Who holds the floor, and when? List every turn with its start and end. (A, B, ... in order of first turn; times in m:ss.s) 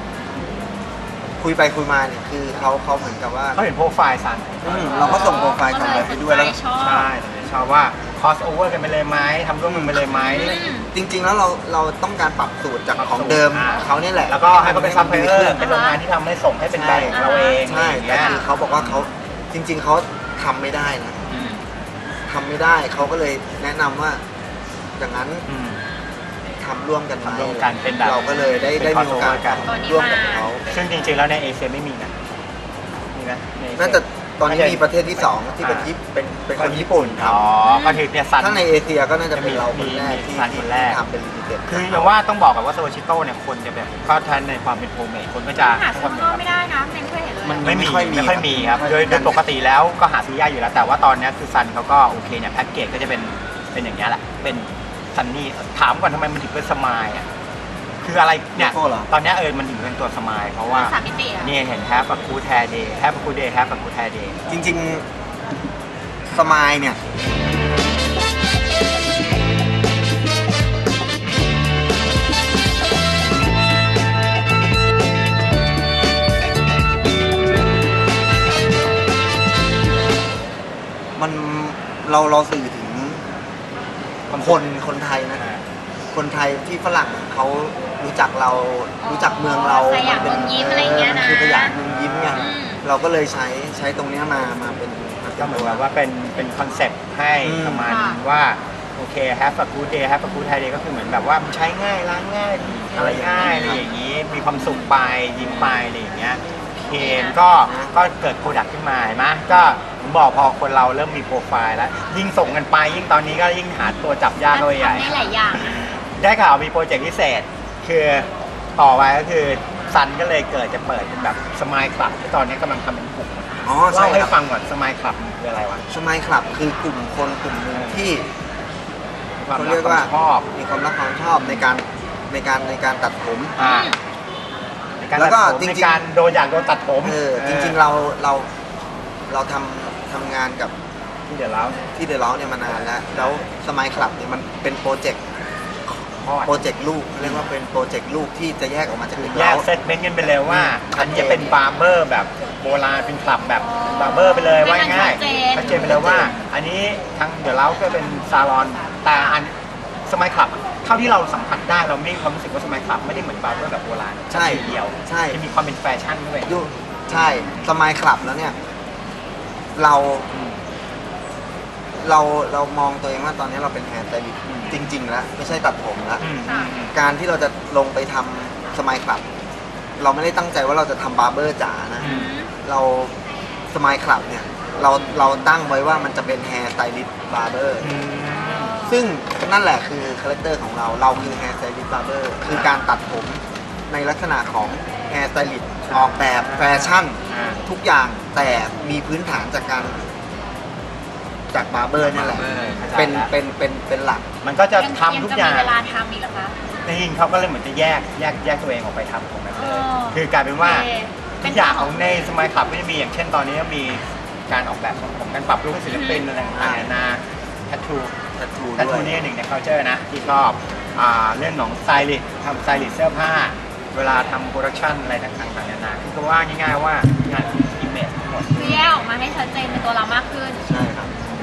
0:01.4-0:03.6 A
0:03.5-0:10.6 B
0:04.6-0:06.5 A
0:04.9-0:07.1 C
0:09.7-0:10.0 A
0:10.1-0:10.9 C
0:10.9-0:15.6 A
0:12.9-0:19.1 B
0:15.6-0:16.0 C
0:16.7-0:21.3 A
0:17.1-0:17.6 C
0:18.1-0:18.5 C
0:21.3-0:21.6 B
0:21.3-0:21.6 C
0:22.3-0:24.2 A
0:25.0-0:25.4 A
0:25.5-0:25.8 B
0:26.6-0:30.7 A
0:27.2-0:29.7 B
0:27.8-0:28.6 C
0:29.6-0:30.5 C
0:30.7-0:32.2 B
0:33.1-0:35.9 B
0:33.8-0:37.5 A
0:36.5-0:38.7 B
0:37.6-0:38.1 C
0:38.4-0:42.1 A
0:39.3-0:41.0 B
0:41.7-0:46.4 B
0:45.6-0:47.7 C
0:47.4-0:49.4 A
0:47.6-0:57.3 B
0:58.0-1:04.5 B
0:58.6-0:59.1 A
1:00.7-1:01.5 C
1:04.5-1:05.0 A
1:06.3-1:07.0 A
1:21.2-1:23.3 A
1:24.3-1:24.6 B
1:24.3-1:25.4 A
1:25.3-1:25.6 B
1:26.1-1:35.8 A
1:29.0-1:31.7 C
1:30.1-1:32.6 B
1:32.3-1:32.8 C
1:35.4-2:05.8 B
1:37.4-1:37.9 A
1:37.8-1:38.2 C
1:42.9-1:43.8 A
1:43.4-1:43.8 C
1:45.4-1:45.8 C
1:46.9-1:47.4 C
1:47.6-1:47.9 A
1:54.5-1:55.7 C
2:03.6-2:04.4 A
2:05.9-2:08.3 A
2:07.7-2:08.1 B
2:09.4-2:10.5 B
2:09.5-2:13.6 A
2:13.6-2:13.9 B
2:13.6-2:14.0 C
2:15.0-2:17.8 B
2:15.1-2:16.1 A
2:17.0-2:18.5 A
2:19.3-2:20.7 A
2:21.3-2:21.8 B
2:21.9-2:25.2 A
2:25.9-2:26.6 B
2:26.4-2:29.7 A
2:27.2-2:27.4 B
2:29.1-2:39.5 B
2:30.5-2:31.5 A
2:33.6-2:35.9 C
2:35.5-2:36.4 A
2:39.1-2:39.4 C
2:40.1-2:47.7 B
2:44.3-2:45.4 A
2:46.4-2:48.6 A
2:49.8-2:50.3 A
2:50.3-2:50.6 B
2:52.0-2:56.3 A
2:54.4-2:54.9 B
2:56.2-2:57.0 B
2:56.4-2:56.7 C
2:56.9-2:59.2 A
3:00.0-3:03.2 A
3:02.0-3:02.3 B
3:02.0-3:02.5 C
3:03.7-3:07.9 A
3:05.0-3:05.2 B
3:07.8-3:08.8 B
3:08.2-3:09.0 C
3:08.8-3:20.0 A
3:11.1-3:11.4 B
3:12.4-3:12.7 B
3:15.8-3:17.6 B
3:17.3-3:17.6 C
3:21.5-3:24.2 A
3:22.0-3:23.3 B
3:22.6-3:22.9 C
3:24.4-3:25.7 B
3:24.7-3:26.6 C
3:26.8-3:30.9 B
3:29.6-3:32.2 C
3:31.4-3:38.2 B
3:35.9-3:36.2 C
3:36.5-3:37.0 A
3:38.4-3:39.2 A
3:38.8-3:48.9 B
3:48.5-3:50.6 C
3:50.6-3:51.1 A